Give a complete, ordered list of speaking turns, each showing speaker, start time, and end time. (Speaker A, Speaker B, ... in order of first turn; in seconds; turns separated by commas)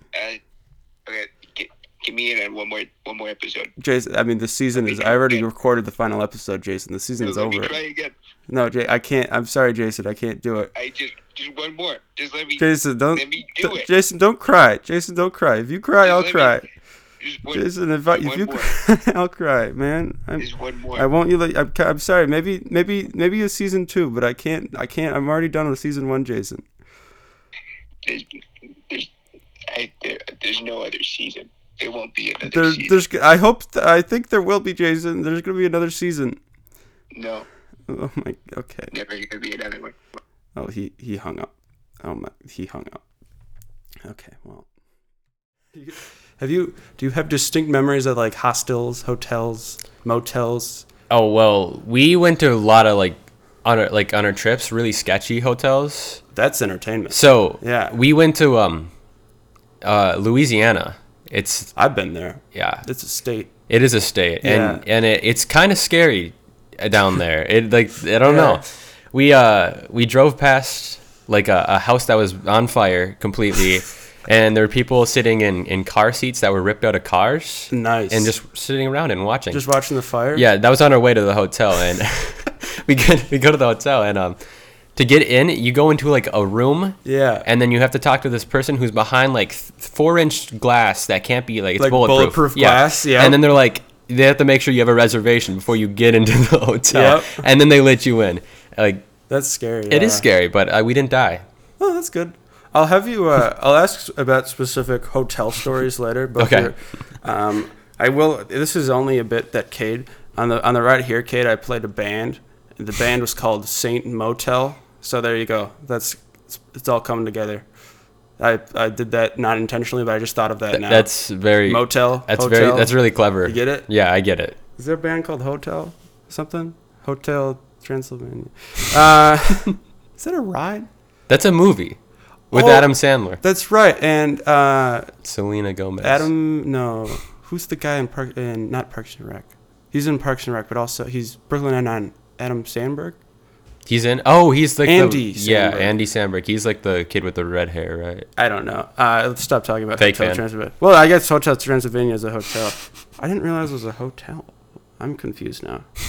Speaker A: 0.1-0.4, Speaker A: 1.1-3.7, Speaker B: 3.8-7.8, Speaker A: 4.8-5.4, Speaker A: 7.2-8.1, Speaker B: 8.5-10.7, Speaker A: 10.8-13.9, Speaker B: 12.6-16.7, Speaker A: 16.0-16.6, Speaker A: 17.2-18.7, Speaker B: 17.5-26.6, Speaker A: 20.4-21.1, Speaker A: 28.1-28.4, Speaker A: 29.7-32.9, Speaker B: 32.5-36.4, Speaker A: 37.1-37.5, Speaker B: 37.9-38.9, Speaker A: 38.9-40.0, Speaker B: 40.5-41.5, Speaker B: 42.0-43.0, Speaker B: 44.0-44.7, Speaker B: 45.7-50.9, Speaker C: 51.1-56.2, Speaker B: 56.3-58.0, Speaker C: 57.1-58.9, Speaker C: 59.8-61.7, Speaker B: 61.8-63.5, Speaker C: 62.5-62.9, Speaker C: 63.7-79.6, Speaker B: 64.4-64.8, Speaker B: 68.2-68.6, Speaker B: 77.7-78.3, Speaker B: 79.5-80.5, Speaker C: 80.3-84.4, Speaker C: 85.0-99.1, Speaker B: 87.0-87.5, Speaker B: 91.8-93.4, Speaker B: 96.9-97.4, Speaker B: 99.3-100.3, Speaker C: 99.9-101.5, Speaker B: 101.8-117.7, Speaker C: 106.4-106.7, Speaker B: 118.4-123.9, Speaker C: 120.7-124.6, Speaker B: 124.8-130.9, Speaker C: 131.3-132.0, Speaker C: 132.5-133.4, Speaker B: 132.5-135.1, Speaker C: 135.2-136.3, Speaker B: 136.0-143.2, Speaker C: 143.9-148.3, Speaker B: 144.8-145.9, Speaker B: 148.4-155.9, Speaker C: 150.0-150.4